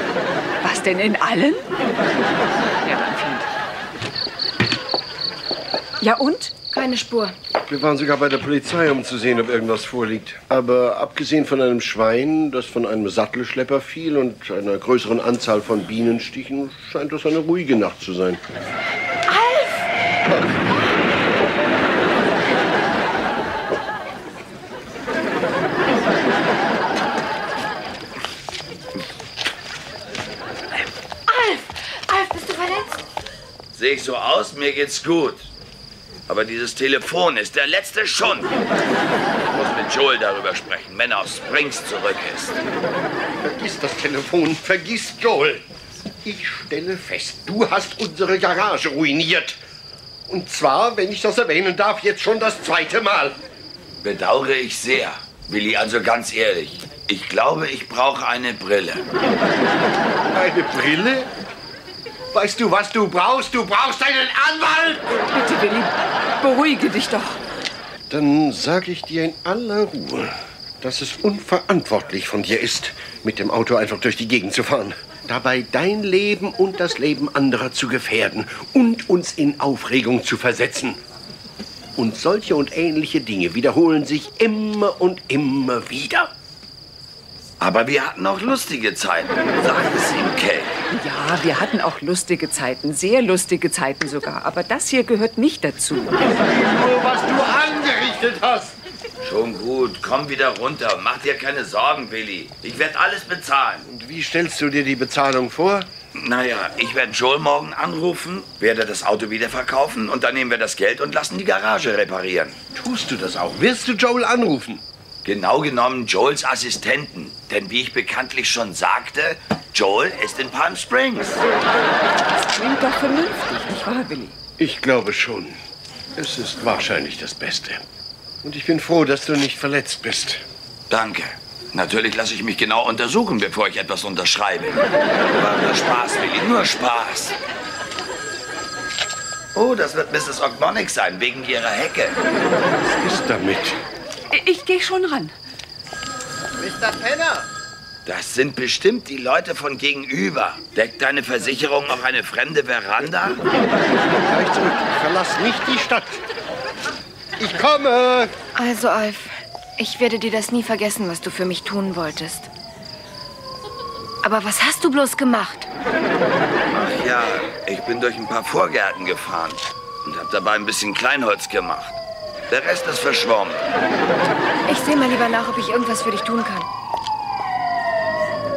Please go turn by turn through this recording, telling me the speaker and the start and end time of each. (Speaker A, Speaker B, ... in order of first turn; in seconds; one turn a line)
Speaker A: 0.6-1.6
Speaker A: 2.8-3.5
Speaker A: 6.0-6.5
Speaker B: 6.7-7.3
Speaker C: 7.7-18.4
Speaker B: 19.3-19.8
Speaker B: 31.3-33.0
Speaker D: 33.7-35.5
Speaker D: 36.3-38.5
Speaker D: 39.4-42.5
Speaker C: 43.4-45.6
Speaker C: 46.2-49.6
Speaker C: 50.3-53.4
Speaker D: 54.0-59.0
Speaker C: 60.3-61.3
Speaker C: 62.3-65.2
Speaker A: 65.3-67.4
Speaker C: 68.1-81.0
Speaker C: 82.0-86.3
Speaker D: 87.6-90.8
Speaker A: 90.9-96.1
Speaker C: 96.2-98.8
Speaker D: 99.2-103.8
Speaker C: 103.8-105.9
Speaker D: 106.1-112.6
Speaker C: 112.7-114.8
Speaker D: 115.2-121.4
Speaker A: 122.3-124.3
Speaker C: 124.6-125.6
Speaker C: 126.2-127.8
Speaker C: 128.4-130.4
Speaker D: 130.9-137.3
Speaker D: 139.5-142.2
Speaker C: 142.8-143.8
Speaker A: 144.3-145.3
Speaker C: 146.6-147.4
Speaker D: 148.1-153.4
Speaker C: 154.2-156.2
Speaker C: 157.4-158.3
Speaker B: 158.5-162.5
Speaker B: 164.2-165.7
Speaker D: 166.7-173.6
Speaker B: 174.7-176.7